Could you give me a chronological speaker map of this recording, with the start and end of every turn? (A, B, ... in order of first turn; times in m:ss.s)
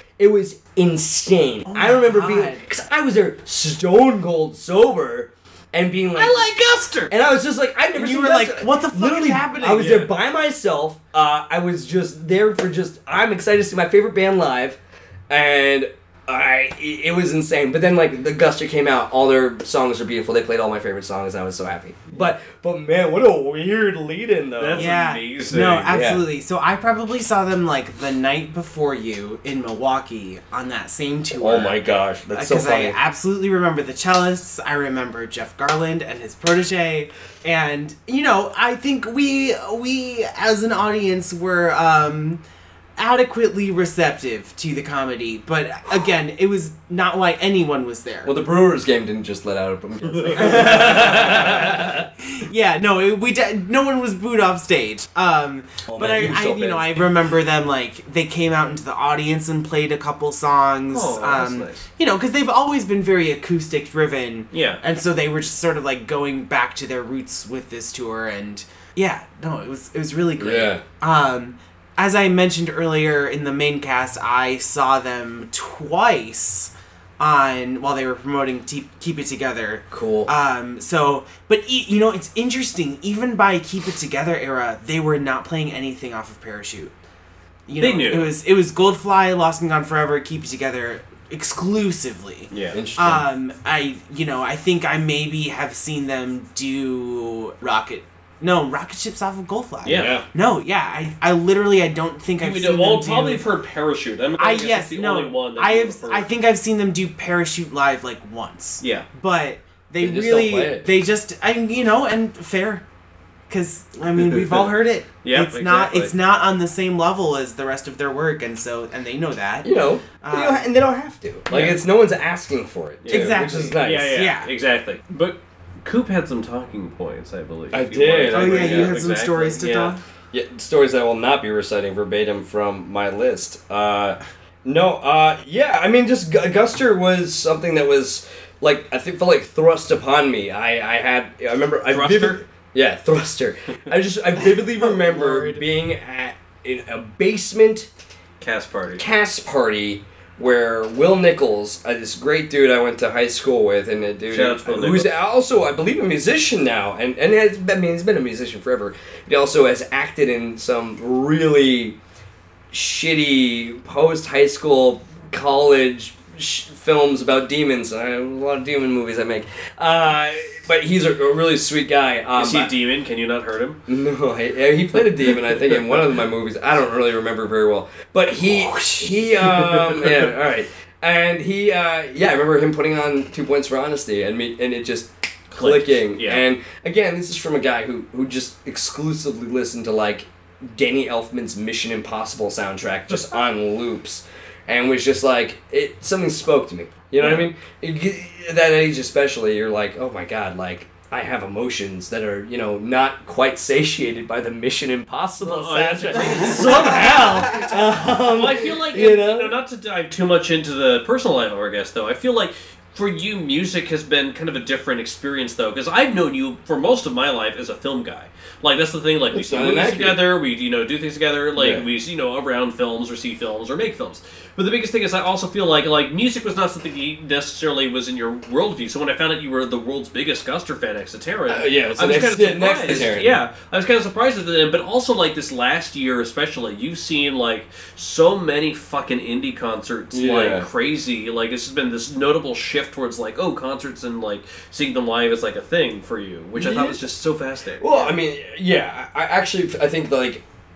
0:00.2-0:06.5 A
0:01.7-0:02.6 B
0:06.2-0:07.1 C
0:07.1-0:24.9 A
0:07.9-0:10.0 B
0:09.8-0:10.1 C
0:24.6-0:25.9 C
0:24.7-0:42.4 B
0:25.9-0:26.2 A
0:31.3-0:33.0 A
0:43.0-0:48.3 B
0:48.2-0:52.1 A
0:50.2-0:51.6 C
0:50.3-1:26.9 B
0:55.9-0:57.1 A
1:00.9-1:01.8 C
1:04.5-1:04.8 C
1:10.4-1:10.8 A
1:19.9-1:20.3 A
1:27.7-1:43.4 B
1:27.8-1:28.3 C
1:32.5-1:32.8 C
1:32.7-1:33.3 A
1:39.8-1:40.2 C
1:39.8-1:40.2 A
1:42.4-1:46.3 C
1:44.4-1:52.8 B
1:48.8-1:49.0 C
1:50.0-1:50.9 A
1:53.5-2:00.7 B
1:55.2-1:56.1 C
1:59.6-2:04.2 A
2:01.5-2:01.8 C
2:03.0-2:10.0 C
2:03.1-2:04.5 B
2:07.7-2:09.0 A
2:08.3-2:10.0 B
2:10.3-2:27.9 A
2:21.9-2:22.4 C
2:24.7-2:25.6 B
2:28.4-2:29.0 C
2:28.9-2:42.0 A
2:34.3-2:35.1 C
2:42.7-2:52.7 A
2:52.3-2:53.8 C
2:53.9-3:29.6 A
2:58.8-3:00.2 C
3:05.5-3:06.4 C
3:17.2-3:17.5 C
3:25.4-4:08.1 C
3:39.3-3:40.2 A
3:41.6-3:41.8 A
3:51.5-3:53.4 A
4:00.1-4:00.7 A
4:06.5-4:07.0 A
4:07.8-4:10.4 A